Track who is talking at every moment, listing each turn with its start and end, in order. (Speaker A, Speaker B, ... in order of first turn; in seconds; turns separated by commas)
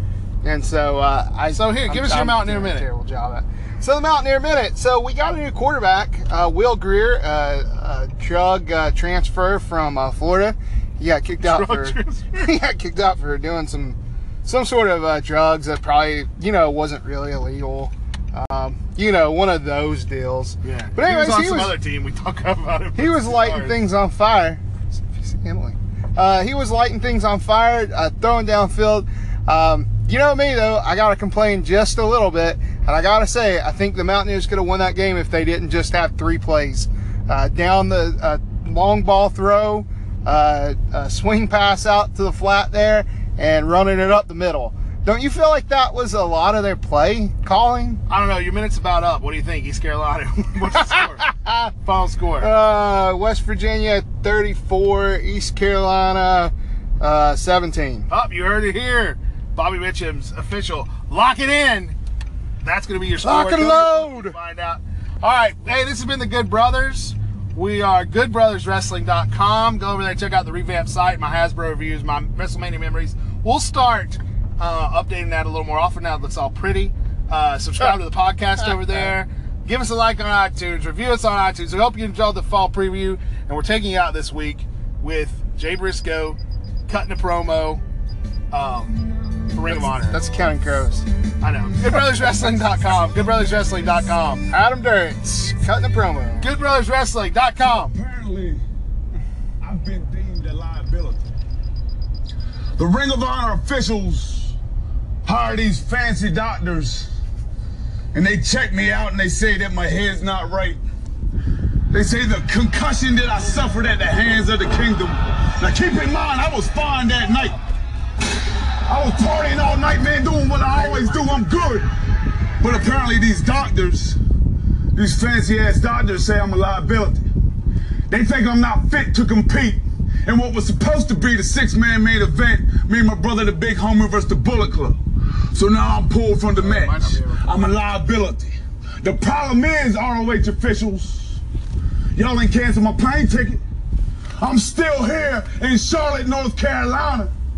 Speaker A: 0.4-21.8, Speaker B: 1.5-2.9, Speaker B: 11.4-12.5, Speaker B: 20.6-23.8, Speaker A: 23.0-48.0, Speaker B: 48.1-51.3, Speaker A: 50.7-51.7, Speaker B: 51.8-52.5, Speaker A: 52.4-58.1, Speaker B: 58.1-62.0, Speaker B: 62.6-87.8, Speaker A: 63.2-64.4, Speaker B: 88.5-90.2, Speaker A: 89.7-91.1, Speaker B: 91.4-94.5, Speaker A: 91.8-92.7, Speaker A: 94.5-96.5, Speaker B: 96.4-98.0, Speaker C: 97.6-98.6, Speaker C: 99.6-101.3, Speaker C: 102.8-104.6, Speaker C: 105.2-107.1, Speaker C: 108.1-110.8, Speaker C: 111.9-117.6, Speaker C: 118.8-121.9, Speaker C: 122.6-124.2, Speaker C: 125.0-127.2, Speaker C: 128.1-135.0, Speaker C: 135.5-141.4, Speaker B: 136.6-137.7, Speaker C: 142.2-143.6, Speaker C: 144.4-147.3